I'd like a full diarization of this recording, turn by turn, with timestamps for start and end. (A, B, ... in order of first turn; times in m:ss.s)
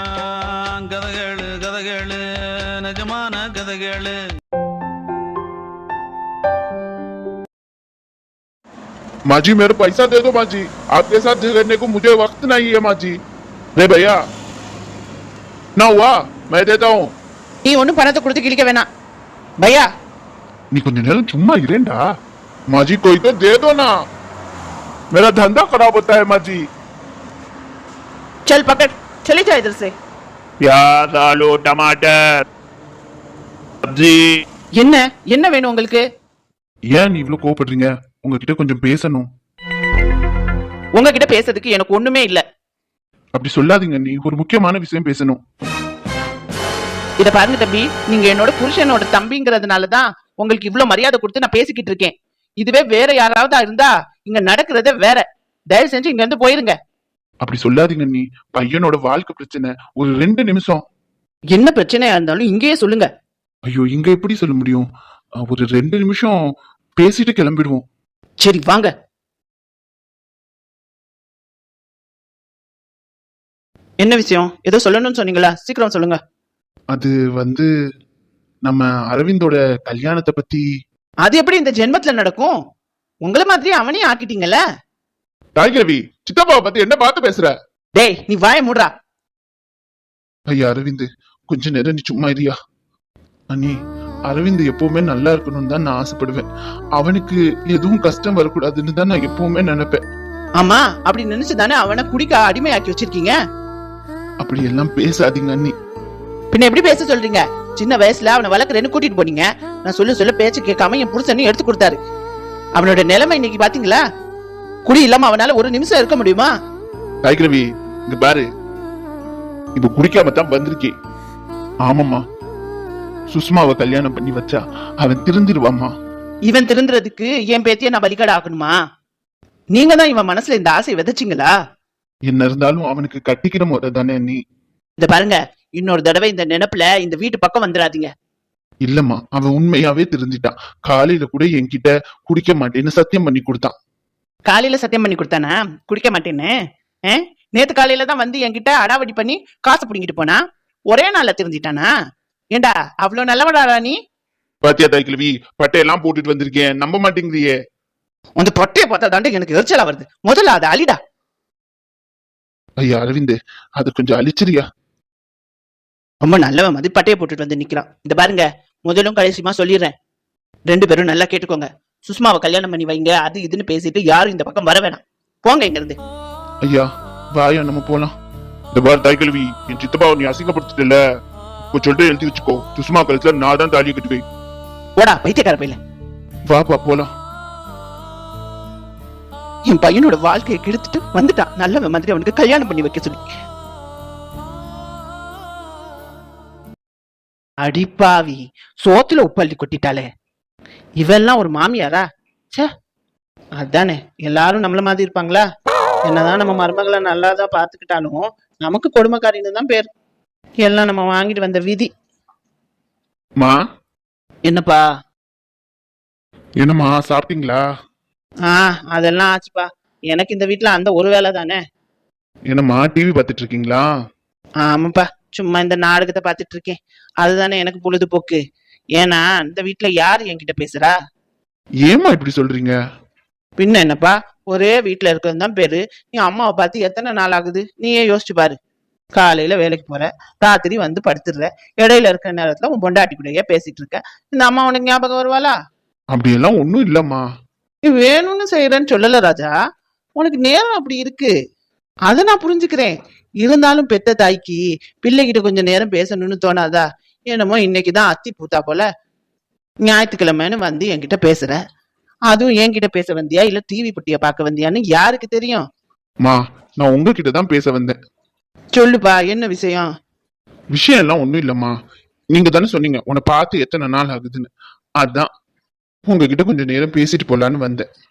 0:00.7-0:02.2 A
0:02.8-0:04.2 A
0:09.3-0:13.1 B
0:13.8-0:14.2 B
0:15.8-0:17.1 B
0:17.6-0:18.8 C
0:19.6-0:19.9 C
0:20.7-0:22.0 B
0:22.7-0:23.9 B
0:25.1-0:26.6 B
0:28.5-0:29.9 C
0:30.6-0:32.4 B
0:33.8-0:34.3 B
0:34.8-0:36.0 C
0:36.9-0:39.3 B
0:41.0-0:42.4 C
0:43.3-0:45.4 B
0:47.2-0:56.7 C
0:57.4-1:00.8 B
1:01.5-1:03.1 C
1:03.6-1:04.9 B
1:05.4-1:06.4 B
1:07.0-1:07.8 B
1:08.4-1:08.9 C
1:14.0-1:16.2 C
1:16.9-1:17.7 B
1:18.6-1:20.6 B
1:21.2-1:22.5 C
1:23.2-1:24.6 C
1:25.6-1:27.5 B
1:28.0-1:28.9 C
1:30.5-1:32.6 B
1:33.5-1:33.8 B
1:34.3-1:40.0 B
1:40.6-1:43.3 C
1:44.4-1:45.7 B
1:46.5-1:52.0 C
1:52.8-1:54.0 C
1:54.8-1:56.5 C
1:57.2-1:58.5 B
1:59.8-2:00.9 B
2:01.8-2:02.2 B
2:03.3-2:05.9 B
2:06.5-2:08.7 C
2:09.7-2:11.5 C
2:12.3-2:14.4 B
2:15.0-2:18.1 C
2:18.8-2:23.7 B
2:24.5-2:26.5 C
2:27.1-2:31.9 C
2:32.5-2:34.0 C
2:34.6-2:37.5 B
2:38.4-2:41.0 C
2:42.8-2:44.6 B
2:46.2-2:49.9 C
2:50.7-2:56.0 C
2:56.6-2:58.1 B
2:58.7-3:01.0 B
3:01.7-3:04.2 B
3:05.0-3:05.8 C
3:06.5-3:07.1 B
3:09.7-3:13.2 C
3:17.6-3:20.1 C
3:21.0-3:22.0 C
3:23.6-3:25.4 C
3:26.0-3:29.9 C
3:30.6-3:31.9 C
3:34.4-3:34.8 C
3:36.6-3:37.6 B
3:38.4-3:41.6 C
3:42.5-3:43.9 B
3:44.6-3:48.4 C
3:49.0-3:50.9 C
3:51.8-3:52.8 B
3:53.6-3:58.6 C
3:59.1-4:05.5 C
4:06.1-4:07.2 B
4:07.8-4:09.5 C
4:10.2-4:11.3 C
4:12.1-4:18.8 C
4:19.8-4:21.6 C
4:22.3-4:25.6 C
4:26.2-4:28.0 B
4:28.7-4:29.9 C
4:30.7-4:31.7 B
4:32.3-4:34.5 B
4:35.0-4:35.3 B
4:36.1-4:37.9 B